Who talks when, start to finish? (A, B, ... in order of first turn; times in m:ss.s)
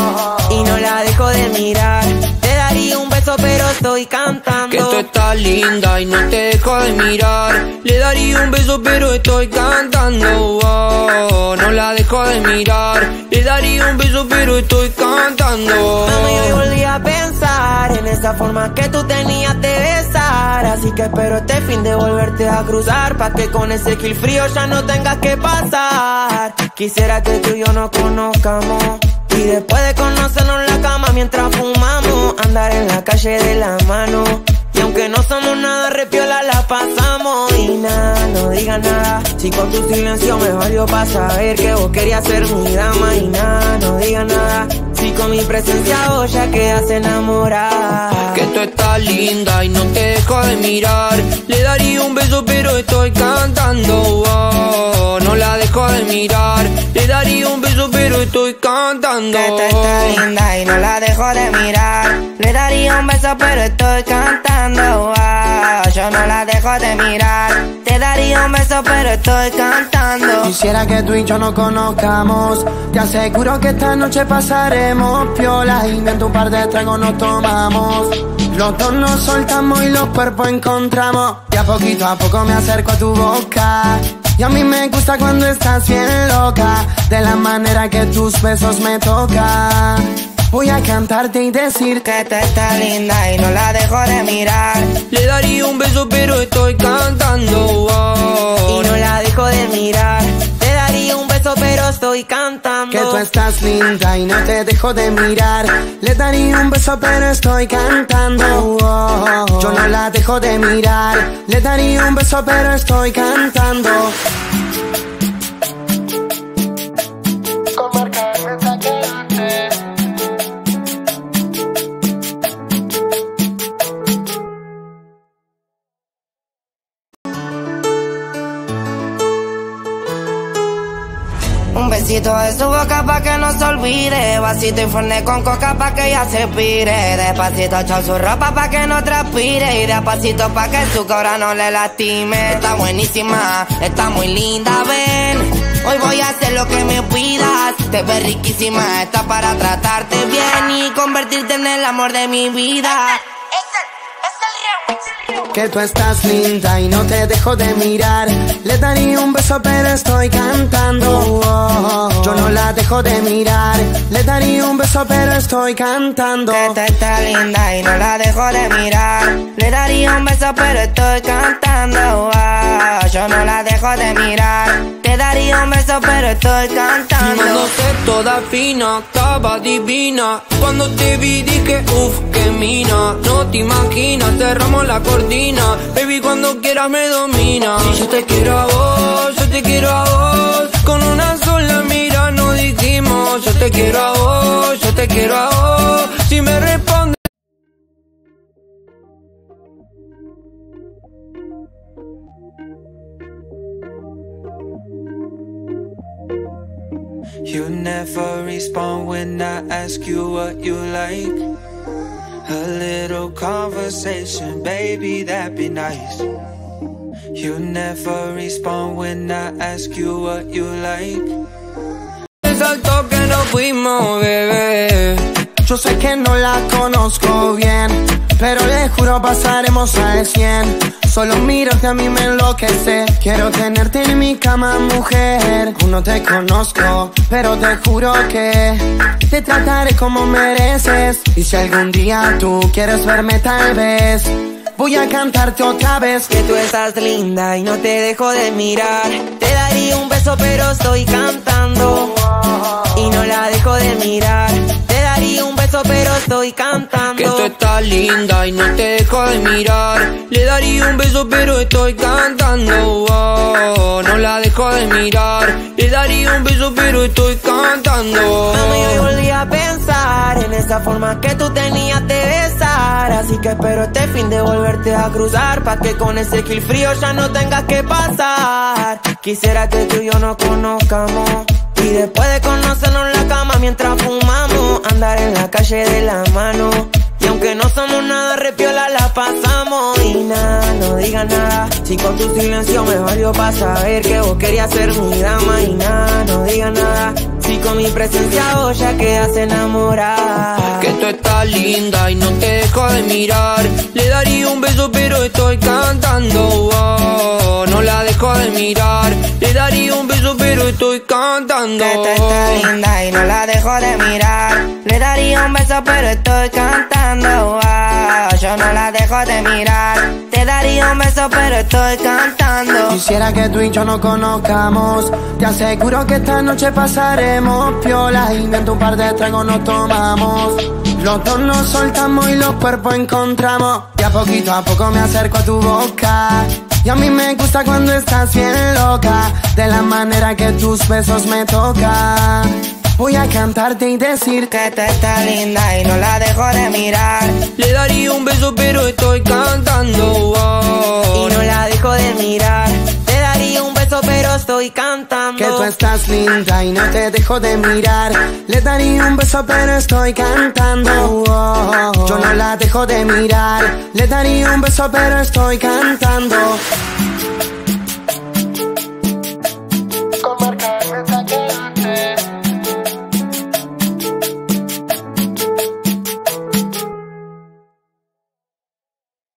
0:00.5-0:05.0 A
0:04.7-0:16.6 B
0:16.0-0:48.4 A
0:48.3-1:00.2 B
0:59.3-1:10.5 C
1:10.4-1:32.0 D
1:32.0-1:35.0 C
1:35.1-1:38.9 B
1:38.6-1:43.2 A
1:42.9-1:54.2 D
2:11.7-2:33.3 C
2:35.5-2:46.8 D
2:46.5-2:57.7 C
2:57.2-3:17.2 B
3:27.4-3:31.5 E
3:32.4-3:36.3 E
3:37.3-3:41.4 E
3:42.4-3:45.3 B
3:45.6-4:06.3 D
4:06.3-4:12.2 A
4:12.9-4:17.5 A
4:17.2-4:29.0 B
4:28.5-5:00.9 A
5:00.8-5:12.7 B
5:11.8-5:23.0 C
5:22.9-5:44.5 D
5:44.5-5:47.4 C
5:47.6-5:51.4 B
5:51.1-5:55.7 A
5:55.4-6:06.7 D